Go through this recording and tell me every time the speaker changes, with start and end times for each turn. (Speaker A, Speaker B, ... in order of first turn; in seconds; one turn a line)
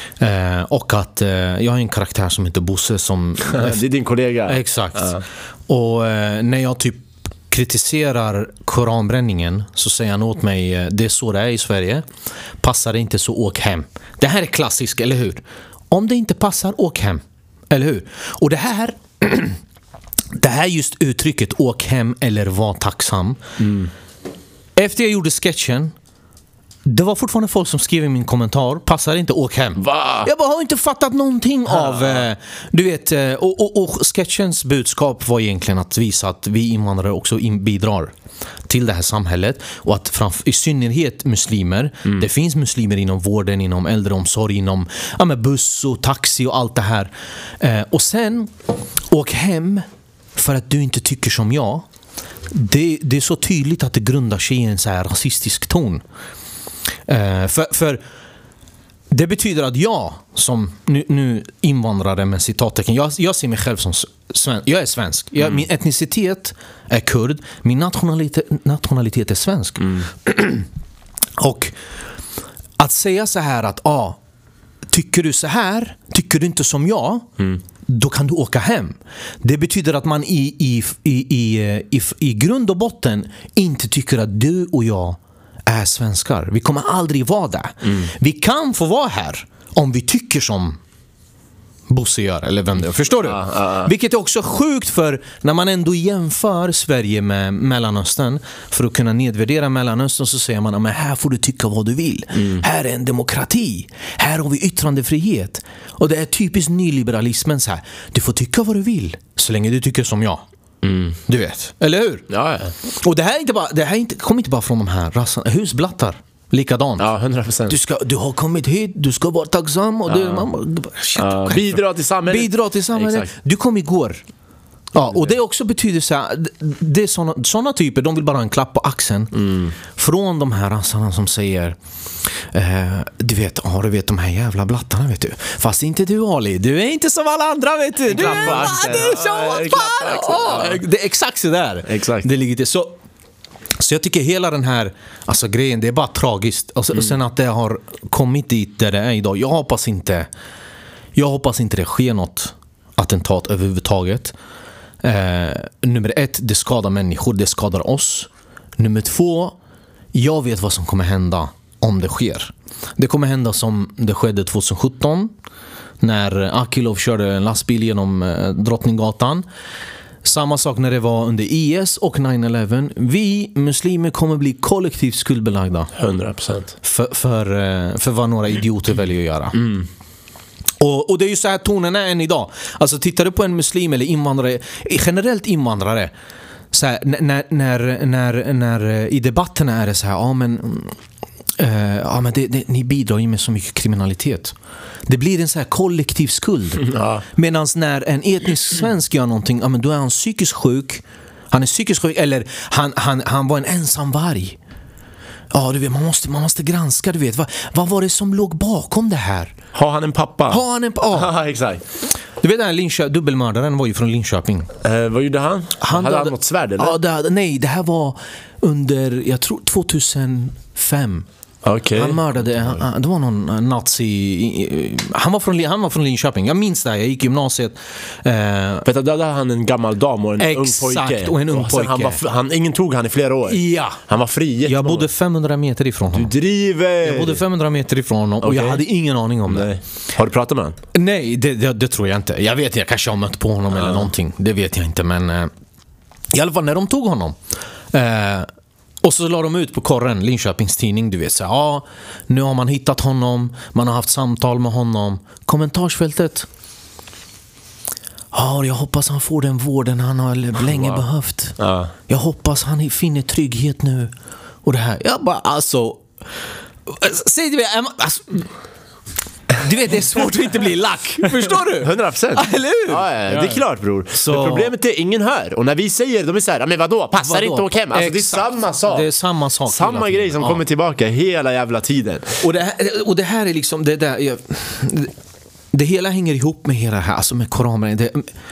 Speaker A: 0.2-3.8
Speaker B: 3.5-5.2
Speaker A: 4.5-12.1
Speaker A: 12.6-19.6
Speaker A: 20.4-23.4
Speaker B: 23.6-23.9
Speaker A: 24.8-25.9
Speaker A: 26.9-38.1
Speaker B: 29.8-30.3
Speaker B: 31.7-32.2
Speaker A: 38.7-48.5
Speaker A: 49.1-51.9
Speaker A: 52.5-56.0
Speaker A: 57.1-58.0
Speaker A: 59.1-70.7
Speaker B: 69.8-70.1
Speaker A: 71.4-71.8
Speaker A: 72.8-74.2
Speaker A: 74.9-77.3
Speaker A: 77.9-90.8
Speaker A: 91.9-110.4
Speaker B: 93.2-93.9
Speaker B: 102.3-102.6
Speaker B: 110.8-111.2
Speaker A: 111.3-112.3
Speaker B: 112.3-112.7
Speaker A: 112.8-117.1
Speaker B: 117.0-117.8
Speaker A: 117.7-124.2
Speaker B: 120.1-120.5
Speaker B: 121.2-123.3
Speaker A: 124.9-131.8
Speaker B: 129.3-129.8
Speaker A: 132.5-143.0
Speaker B: 138.1-140.8
Speaker B: 141.9-142.3
Speaker A: 143.8-150.3
Speaker A: 151.2-154.3
Speaker A: 155.0-159.6
Speaker A: 160.1-165.3
Speaker A: 166.0-169.5
Speaker A: 170.2-175.9
Speaker B: 176.0-176.7
Speaker A: 176.8-179.6
Speaker B: 179.6-179.9
Speaker A: 180.8-186.1
Speaker A: 186.7-190.9
Speaker A: 191.6-194.6
Speaker A: 195.1-204.6
Speaker B: 196.8-197.2
Speaker A: 205.5-209.6
Speaker B: 209.7-211.8
Speaker A: 210.5-211.3
Speaker A: 212.4-214.7
Speaker B: 214.8-217.0
Speaker A: 215.8-221.3
Speaker B: 221.6-222.8
Speaker A: 221.9-228.9
Speaker B: 228.8-235.1
Speaker A: 230.4-232.2
Speaker A: 233.5-234.0
Speaker A: 234.6-236.3
Speaker B: 236.1-237.4
Speaker A: 237.0-239.7
Speaker B: 238.4-238.8
Speaker B: 239.5-240.8
Speaker A: 240.9-245.5
Speaker B: 243.8-244.1
Speaker A: 246.3-247.4
Speaker A: 247.9-248.5
Speaker A: 249.0-256.5
Speaker A: 258.3-261.6
Speaker B: 260.8-261.0
Speaker B: 261.6-261.9
Speaker A: 262.1-264.1
Speaker A: 264.6-266.1
Speaker A: 266.9-268.5
Speaker A: 269.6-273.5
Speaker B: 271.8-279.1
Speaker A: 274.1-274.7
Speaker A: 277.2-280.6
Speaker B: 279.7-282.4
Speaker A: 282.4-285.1
Speaker A: 285.7-288.3